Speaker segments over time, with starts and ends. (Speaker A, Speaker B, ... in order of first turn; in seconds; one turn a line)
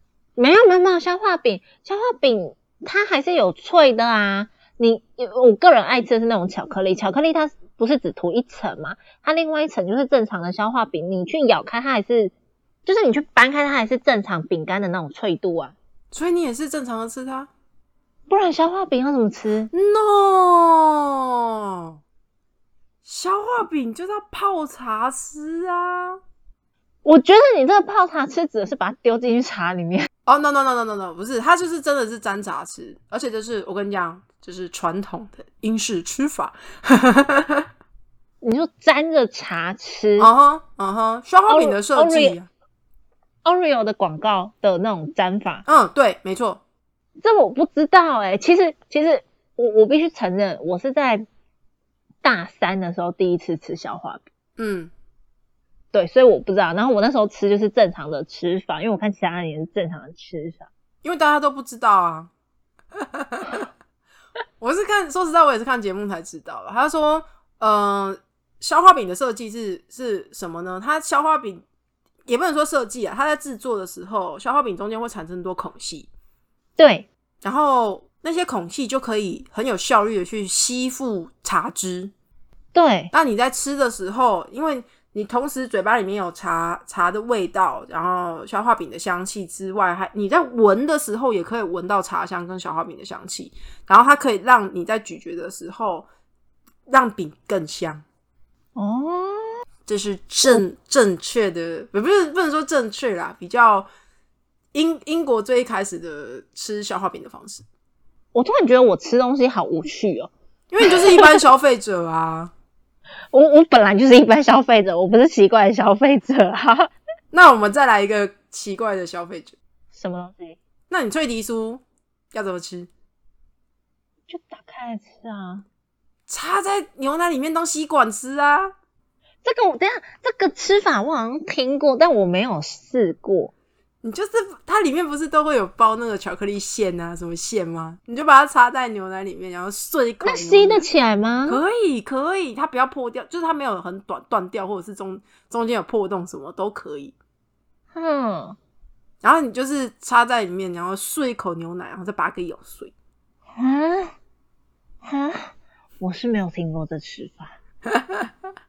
Speaker A: 0.4-12.3
Speaker A: 12.9-15.8
Speaker B: 16.1-17.5
Speaker A: 18.3-19.7
Speaker B: 19.7-22.0
Speaker B: 23.1-26.2
Speaker A: 27.1-30.1
Speaker B: 30.3-37.6
Speaker A: 38.4-40.3
Speaker B: 40.2-42.5
Speaker A: 41.5-42.4
Speaker A: 43.5-45.6
Speaker B: 45.6-46.6
Speaker A: 47.2-51.2
Speaker A: 52.2-54.2
Speaker B: 54.6-54.9
Speaker A: 55.9-60.7
Speaker B: 61.0-62.3
Speaker B: 63.0-63.6
Speaker B: 64.6-71.6
Speaker B: 72.3-76.1
Speaker A: 76.8-77.1
Speaker B: 77.4-82.1
Speaker A: 82.7-83.1
Speaker B: 83.1-96.1
Speaker B: 96.9-98.0
Speaker A: 98.8-99.6
Speaker B: 99.9-103.9
Speaker B: 104.7-107.7
Speaker A: 108.3-110.3
Speaker B: 110.7-112.5
Speaker A: 110.9-111.2
Speaker A: 113.3-116.9
Speaker B: 117.3-119.5
Speaker A: 119.9-120.6
Speaker B: 120.9-122.9
Speaker A: 124.3-125.7
Speaker B: 126.3-128.7
Speaker A: 129.4-133.5
Speaker B: 134.0-140.8
Speaker A: 140.2-141.6
Speaker B: 141.5-147.2
Speaker A: 147.9-148.6
Speaker B: 149.2-152.9
Speaker A: 153.6-154.2
Speaker A: 155.0-157.6
Speaker B: 157.9-158.3